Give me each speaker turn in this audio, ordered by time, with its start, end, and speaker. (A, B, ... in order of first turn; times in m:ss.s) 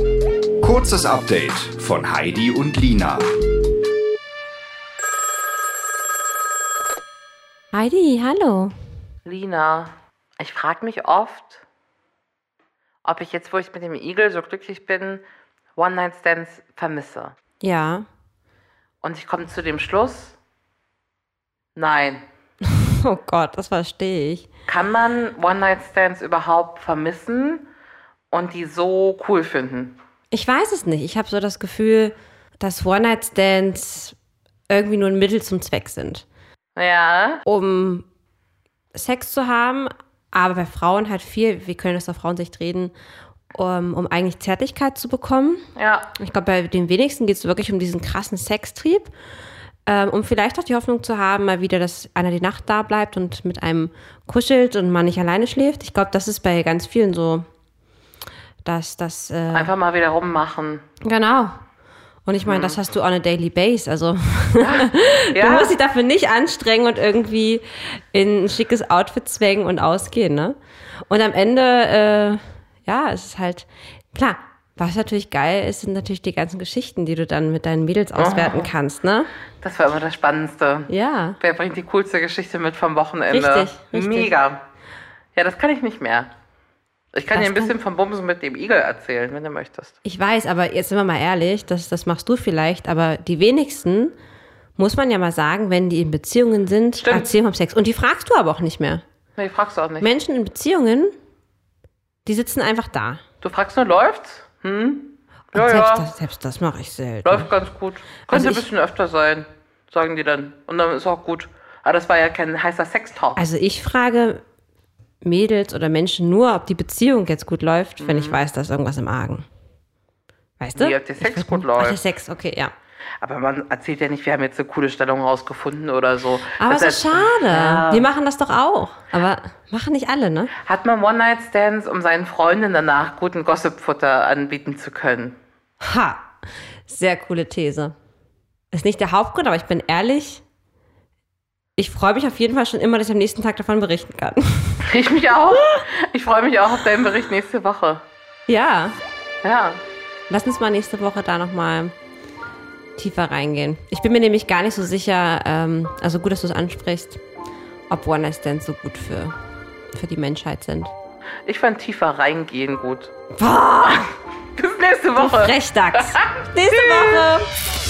0:00.6-0:03.3 A
0:07.7-0:08.7 B
0:09.2-0:11.6 C
0:13.0-0:15.2 C
0:15.8-0:17.3 C
0:17.6-0:18.0 B
0:19.0-0:20.4 C
0:21.8-0:22.2 C
0:22.6-0:24.5 B
0:24.7-0:27.7 C
0:28.3-0:30.0 C
0:30.3-0:34.2 B
0:34.7-0:36.2 B
0:36.8-0:37.4 C
0:37.4-0:38.0 B
0:38.9-0:42.9 B
0:43.5-0:45.6 B
0:45.8-0:46.1 C
0:46.2-0:49.1 B
0:49.9-0:57.4 B
0:58.6-0:59.7 B
0:59.5-1:00.8 C
1:01.0-1:01.6 B
1:02.2-1:10.6 B
1:02.4-1:02.8 C
1:04.6-1:05.7 C
1:11.1-1:19.3 B
1:18.2-1:18.7 C
1:19.6-1:24.6 C
1:20.9-1:21.4 B
1:23.3-1:24.3 B
1:25.4-1:26.3 C
1:27.1-1:29.9 C
1:27.3-1:27.7 B
1:30.0-1:34.1 B
1:34.8-1:39.0 B
1:37.0-1:37.3 C
1:39.4-1:40.1 C
1:40.0-1:41.1 B
1:42.2-1:43.2 B
1:43.4-1:46.0 C
1:45.6-1:47.5 B
1:47.2-1:53.4 C
1:48.3-1:48.7 B
1:53.4-1:54.4 B
1:55.2-1:59.4 B
1:58.0-1:58.4 C
2:00.6-2:02.7 B
2:00.7-2:02.0 C
2:03.2-2:08.1 C
2:06.6-2:10.5 B
2:10.6-2:15.4 C
2:15.8-2:16.3 B
2:16.9-2:17.9 B
2:18.7-2:20.4 B
2:21.8-2:24.8 B
2:24.8-2:28.0 C
2:28.5-2:29.0 B
2:29.4-2:29.8 C
2:30.3-2:31.9 B
2:33.0-2:37.2 B
2:37.9-2:39.3 B
2:39.9-2:40.9 B
2:41.5-2:43.1 C
2:43.4-2:44.1 B
2:44.6-2:47.3 C
2:45.2-2:47.5 B